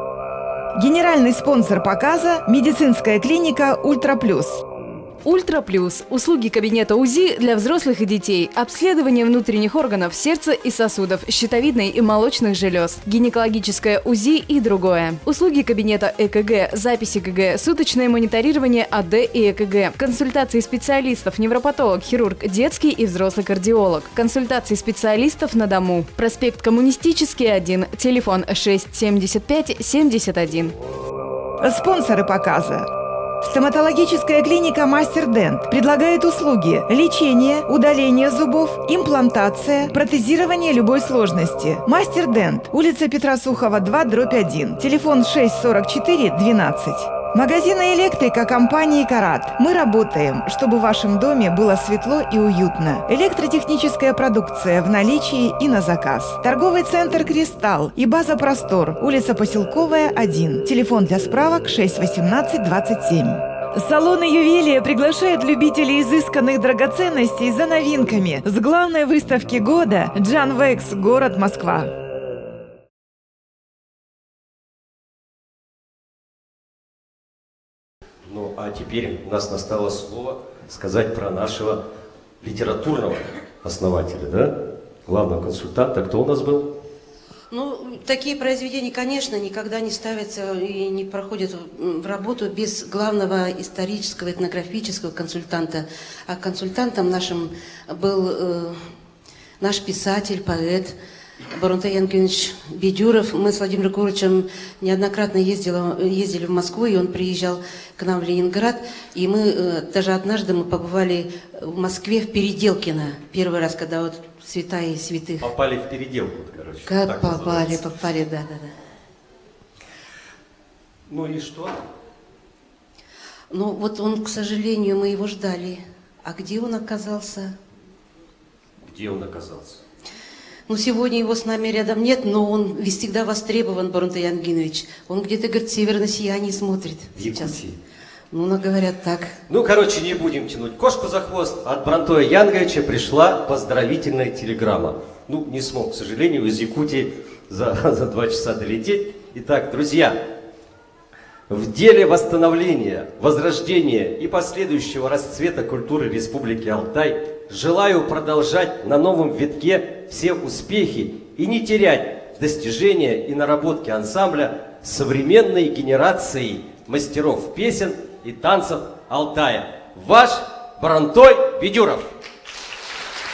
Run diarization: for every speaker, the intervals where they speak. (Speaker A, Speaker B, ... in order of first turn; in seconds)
Speaker A: 0.7-4.6, 31.6-32.9, 33.4-71.9
Speaker B: 5.2-30.7
Speaker C: 78.2-81.8, 82.4-84.5, 85.0-86.7, 115.4-117.8, 121.1-121.8, 128.8-129.8, 137.2-137.8, 139.5-150.2, 151.5-172.1
Speaker D: 87.5-98.8, 99.6-100.9, 101.5-115.5, 116.8-118.7, 123.5-127.5, 130.7-137.6, 138.3-139.3